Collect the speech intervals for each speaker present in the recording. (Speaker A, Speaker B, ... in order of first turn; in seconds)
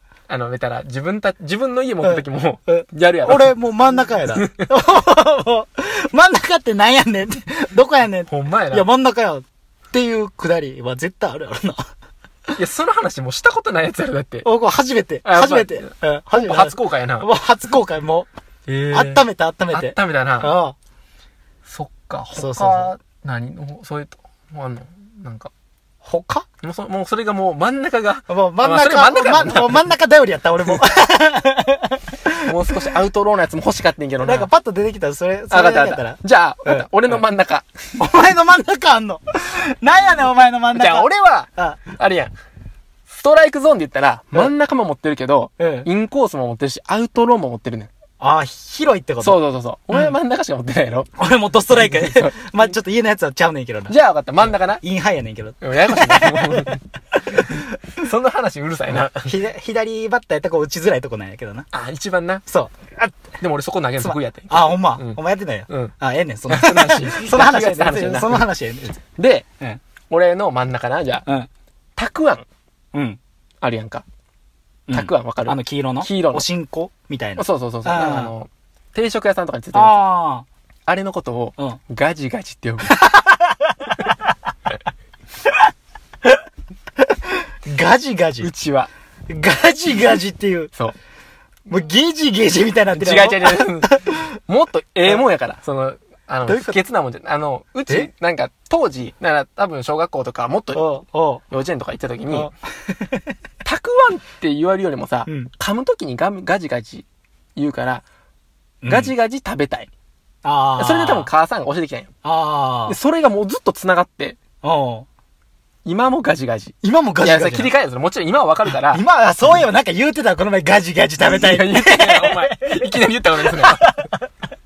Speaker A: 0.3-3.5, 4.3-4.7, 8.3-8.9, 12.6-14.5, 15.2-17.3, 18.7-20.5, 21.6-25.5, 26.6-29.9, 32.4-34.5, 35.5-37.7, 40.7-42.3, 43.1-47.9, 49.2-51.1, 51.7-52.7, 53.9-54.8, 55.6-56.8, 57.3-59.3, 61.7-62.4, 63.4-65.9, 66.5-68.5, 69.2-69.5, 70.1-71.2, 72.0-72.5, 73.6-74.0, 74.9-76.4, 77.4-80.0, 80.9-83.0, 88.4-88.9, 92.9-100.9, 101.5-102.5, 103.6-108.0, 108.8-109.9, 110.8-112.1, 112.9-114.4, 115.8-119.0, 121.2-124.0
Speaker B: 2.0-11.8, 14.4-18.3, 18.9-20.8, 22.3-22.9, 26.0-26.4, 28.3-32.9, 34.2-37.2, 38.0-41.8, 45.6-45.9, 48.2-49.4, 51.2-57.6, 58.9-61.7, 62.5-63.1, 64.0-69.0, 72.9-73.2, 74.9-78.3, 79.7-80.5, 82.9-84.1, 87.2-88.5, 89.3-90.7, 91.7-94.3, 96.5-96.8, 100.7-101.4, 102.3-103.3, 108.8-109.1, 110.4-111.3, 112.2-113.0, 114.6-115.1, 116.8-117.7, 118.7-124.2